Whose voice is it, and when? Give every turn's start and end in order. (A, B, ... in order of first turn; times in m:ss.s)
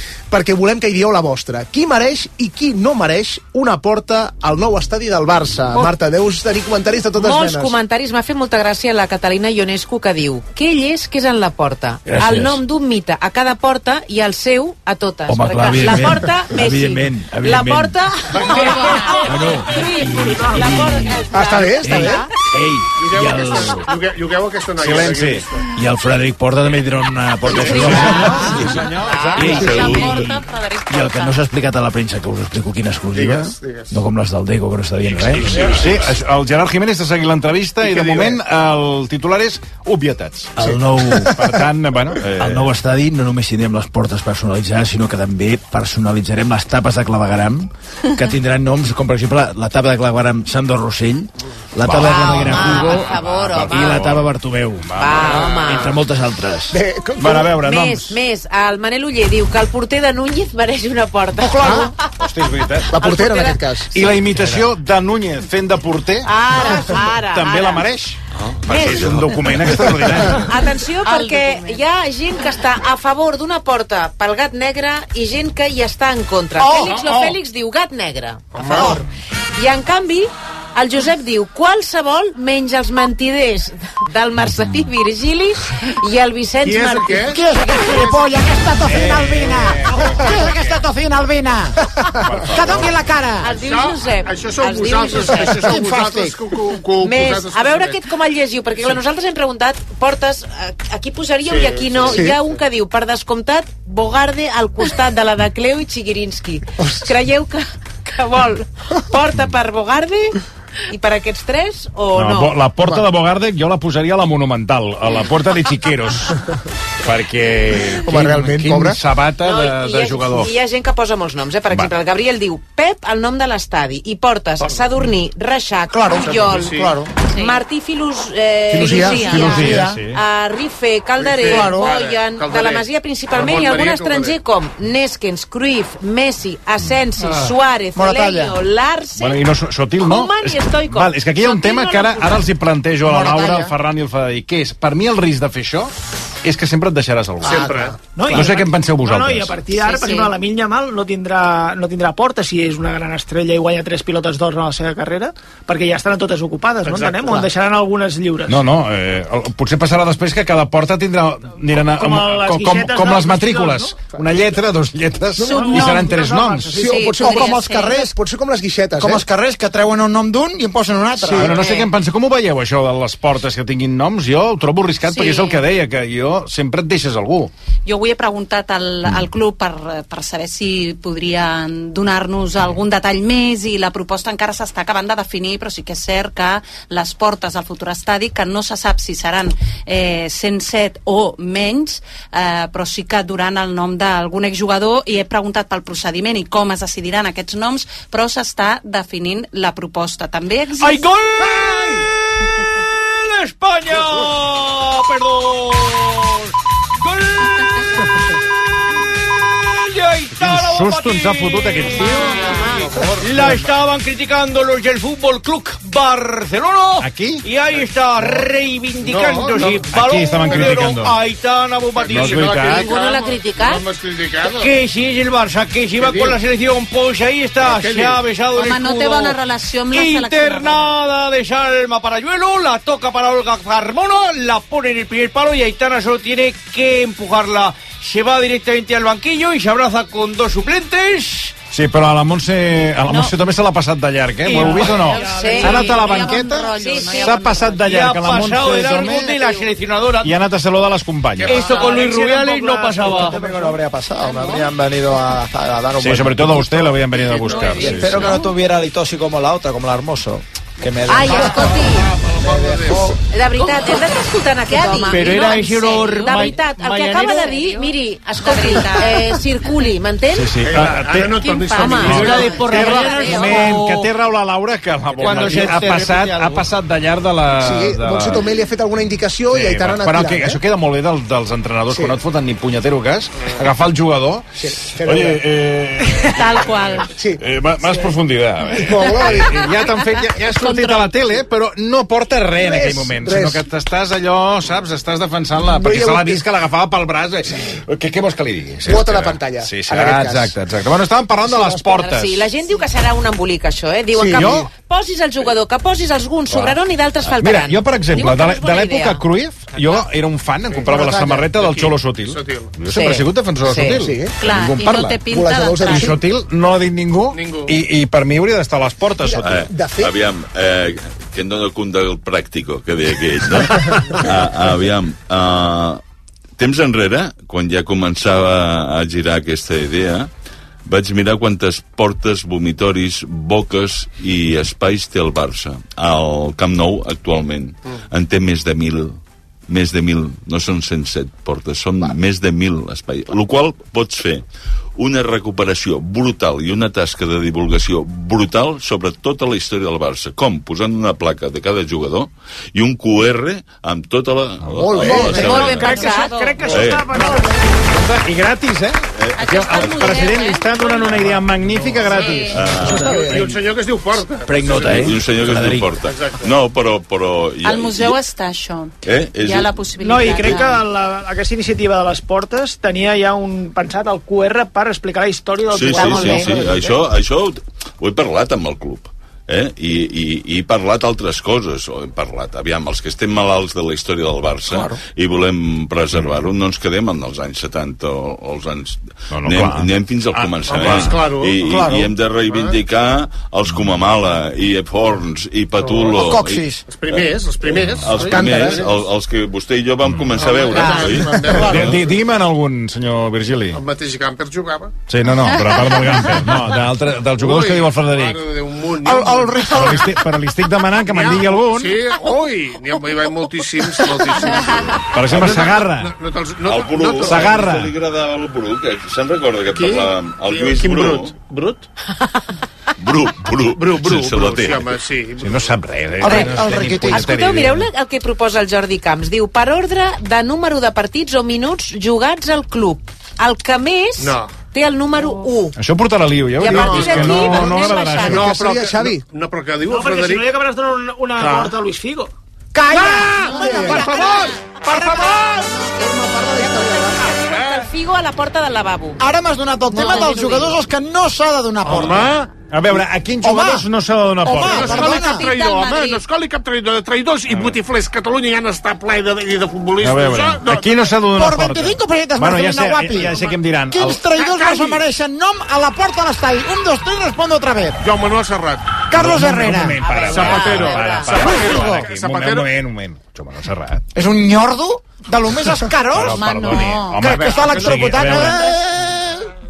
0:00.3-0:07.8 A
0:07.2-0:19.2 B
0:12.1-0:12.6 C
0:15.3-0:18.0 C
0:18.4-0:19.1 D
0:18.5-0:20.1 E
0:19.2-0:23.9 C
0:19.8-0:20.9 B
0:20.3-0:20.7 F
0:20.7-0:21.0 E
0:21.3-0:22.3 A
0:21.5-0:22.0 E
0:22.9-0:25.7 D
0:24.8-0:25.4 G
0:25.7-0:28.7 C
0:27.4-0:27.9 D
0:27.5-0:31.4 E
0:27.8-0:29.9 G
0:29.1-0:29.5 B
0:29.3-0:35.5 C
0:29.5-0:30.1 H
0:33.1-0:33.9 D
0:35.4-0:42.6 G
0:35.4-0:36.2 D
0:37.8-0:38.4 D
0:40.6-0:41.4 C
0:42.3-0:56.8 C
0:51.8-0:55.8 G
0:51.9-0:54.1 B
0:55.0-0:56.0 B
0:56.7-0:57.6 A
0:57.2-0:58.2 G
0:57.5-1:02.1 B
1:01.4-1:01.9 A
1:02.2-1:02.9 G
1:02.9-1:03.9 A
1:03.0-1:03.6 B
1:03.9-1:10.5 G
1:06.3-1:07.9 B
1:08.4-1:10.0 H
1:08.7-1:09.1 B
1:10.4-1:18.9 B
1:11.0-1:11.8 E
1:16.6-1:17.3 I
1:18.5-1:19.0 D
1:18.6-1:19.0 I
1:19.6-1:27.2 B
1:26.6-1:28.3 D
1:27.3-1:31.8 I
1:28.9-1:30.7 G
1:32.2-1:32.9 G
1:32.5-1:33.5 I
1:33.4-1:35.6 B
1:33.5-1:38.0 D
1:35.6-1:36.4 I
1:37.0-1:50.4 B
1:41.5-1:42.4 D
1:42.0-1:42.4 A
1:50.9-1:52.6 B
1:52.1-1:56.4 G
1:57.0-2:00.5 G
1:58.0-1:59.0 A
1:59.4-2:06.8 B
2:05.9-2:07.0 I
2:06.2-2:07.0 D
2:07.3-2:07.6 E
2:07.3-2:19.4 B
2:08.7-2:10.0 A
2:08.7-2:10.2 G
2:08.9-2:09.9 I
2:11.2-2:14.4 D
2:11.5-2:11.8 I
2:18.0-2:18.6 I
2:19.2-2:25.9 G
2:20.0-2:22.4 B
2:23.1-2:23.7 I
2:26.4-2:27.7 G
2:27.4-2:28.0 D
2:27.4-2:27.8 A
2:28.2-2:38.6 F
2:28.3-2:29.5 G
2:29.8-2:30.3 E
2:36.9-2:37.4 D
2:38.5-2:46.8 G
2:42.0-2:44.0 F
2:45.4-2:46.2 E
2:45.4-2:47.0 F
2:46.7-2:48.0 E
2:46.8-2:49.2 A
2:47.2-2:48.1 I
2:49.0-2:51.6 I
2:51.2-2:51.6 A
2:51.3-2:57.5 G
2:51.5-2:51.9 B
2:55.1-2:55.6 E
2:57.8-3:21.1 E
3:20.8-3:22.0 J
3:21.4-3:22.0 D
3:23.0-3:27.6 J
3:29.2-3:32.2 J
3:30.4-3:32.5 G
3:32.5-3:33.5 D
3:32.5-3:32.8 B
3:33.2-3:42.5 J
3:37.0-3:37.4 G
3:39.0-3:39.9 D
3:39.9-3:41.2 G
3:40.4-3:40.9 D
3:42.0-3:44.8 D
3:42.1-3:42.9 G
3:42.7-3:43.8 B
3:44.5-3:49.4 J
3:46.0-3:46.4 D
3:47.6-3:48.2 D
3:48.5-3:51.0 E
3:49.9-4:01.6 J
4:01.7-4:09.4 G
4:03.0-4:03.4 E
4:04.5-4:06.1 F
4:04.6-4:04.9 J
4:04.9-4:08.1 E
4:05.3-4:05.8 B
4:06.8-4:07.2 B
4:07.8-4:10.4 J
4:09.3-4:09.7 B
4:10.2-4:11.7 G
4:11.4-4:11.8 D
4:11.5-4:13.4 J
4:11.6-4:13.8 F
4:13.3-4:16.9 K
4:14.3-4:14.6 B
4:16.0-4:18.4 G
4:17.0-4:17.9 D
4:17.4-4:18.5 E
4:17.7-4:21.9 K
4:21.1-4:22.1 B
4:21.3-4:23.2 D
4:22.4-4:23.2 K
4:23.3-4:30.5 B
4:24.8-4:27.6 J
4:24.8-4:26.6 E
4:27.2-4:27.8 E
4:28.3-4:29.8 E
4:30.3-4:38.4 G
4:30.6-4:32.6 D
4:31.2-4:33.5 E
4:31.8-4:33.6 B
4:32.1-4:34.1 J
4:35.1-4:35.8 D
4:35.2-4:35.7 J
4:35.4-4:36.6 C
4:37.6-4:40.6 A
4:39.5-4:44.5 G
4:41.9-4:42.2 A
4:44.6-4:45.4 A
4:45.0-4:46.7 G
4:46.2-4:47.1 E
4:47.1-4:48.1 A
4:47.4-5:02.5 G
4:48.8-4:49.6 A
4:50.1-4:51.1 E
4:52.6-4:53.6 A
4:55.7-4:56.4 A
4:58.9-5:00.5 A
5:01.5-5:09.2 B
5:04.1-5:04.7 A
5:04.3-5:04.7 G
5:06.5-5:06.8 G
5:07.3-5:15.2 G
5:09.8-5:10.0 B
5:10.7-5:12.7 D
5:10.9-5:11.5 A
5:12.9-5:14.0 B
5:13.9-5:14.4 A
5:14.4-5:16.2 E
5:15.2-5:16.2 A
5:15.8-5:19.5 G
5:17.3-5:17.8 D
5:19.2-5:20.1 A
5:19.4-5:26.0 H
5:26.6-5:30.3 H
5:30.9-5:44.4 H
5:45.0-5:56.1 H
5:54.8-5:55.8 A
5:55.1-5:56.5 B
5:55.3-5:57.6 F
5:55.8-5:56.8 E
5:56.6-5:57.4 H
5:57.9-6:03.2 G
5:59.2-6:00.4 H
5:59.4-6:01.3 E
6:02.0-6:05.1 D
6:02.0-6:02.7 E
6:02.5-6:03.3 H
6:02.8-6:03.4 A
6:04.5-6:05.8 C
6:04.8-6:08.2 H
6:06.0-6:06.5 D
6:07.6-6:10.8 E
6:09.0-6:10.8 H
6:10.0-6:17.0 F
6:15.7-6:42.0 H
6:29.3-6:31.2 G
6:30.7-6:31.6 D
6:31.6-6:32.1 I
6:32.4-6:32.8 D
6:35.8-6:36.2 D
6:36.2-6:36.8 I
6:36.9-6:39.0 D
6:38.3-6:38.8 A
6:40.1-6:40.4 G
6:40.4-6:42.1 D
6:41.5-6:43.8 G
6:43.7-6:44.9 D
6:45.1-6:48.4 G
6:47.4-6:50.0 D
6:49.0-6:50.0 I
6:49.7-6:52.0 G
6:51.0-6:57.7 D
6:55.1-6:56.1 G
6:56.6-7:01.4 H
6:57.2-6:57.9 G
6:59.7-7:01.9 D
7:03.0-7:05.0 H
7:03.7-7:05.8 D
7:05.4-7:07.8 G
7:06.2-7:07.4 I
7:06.3-7:06.6 B
7:07.1-7:15.8 B
7:14.2-7:14.6 D
7:15.8-7:18.6 G
7:16.6-7:18.5 B
7:16.7-7:20.5 D
7:18.2-7:19.2 A
7:19.9-7:22.3 F
7:21.4-7:21.7 D
7:22.7-7:25.5 I
7:23.0-7:23.5 D
7:23.5-7:24.1 A
7:23.8-7:24.5 F
7:25.4-7:27.4 A
7:26.6-7:29.2 B
7:27.5-7:27.9 D
7:29.2-7:32.3 I
7:29.9-7:30.8 B
7:31.9-7:35.1 G
7:31.9-7:32.3 D
7:33.4-7:33.9 I
7:34.5-7:35.5 I
7:34.5-7:41.0 D
7:34.9-7:36.2 E
7:37.5-7:37.8 G
7:40.0-7:44.3 G
7:41.4-7:48.0 I
7:44.4-7:45.0 D
7:48.0-7:49.0 D
7:49.1-7:50.0 I
7:49.1-7:54.1 G
7:50.0-7:51.5 B
7:50.3-7:52.7 D
7:51.4-7:52.0 I
7:54.2-7:56.4 I
7:56.1-7:58.6 G
7:56.2-7:58.7 E
7:57.2-7:59.2 I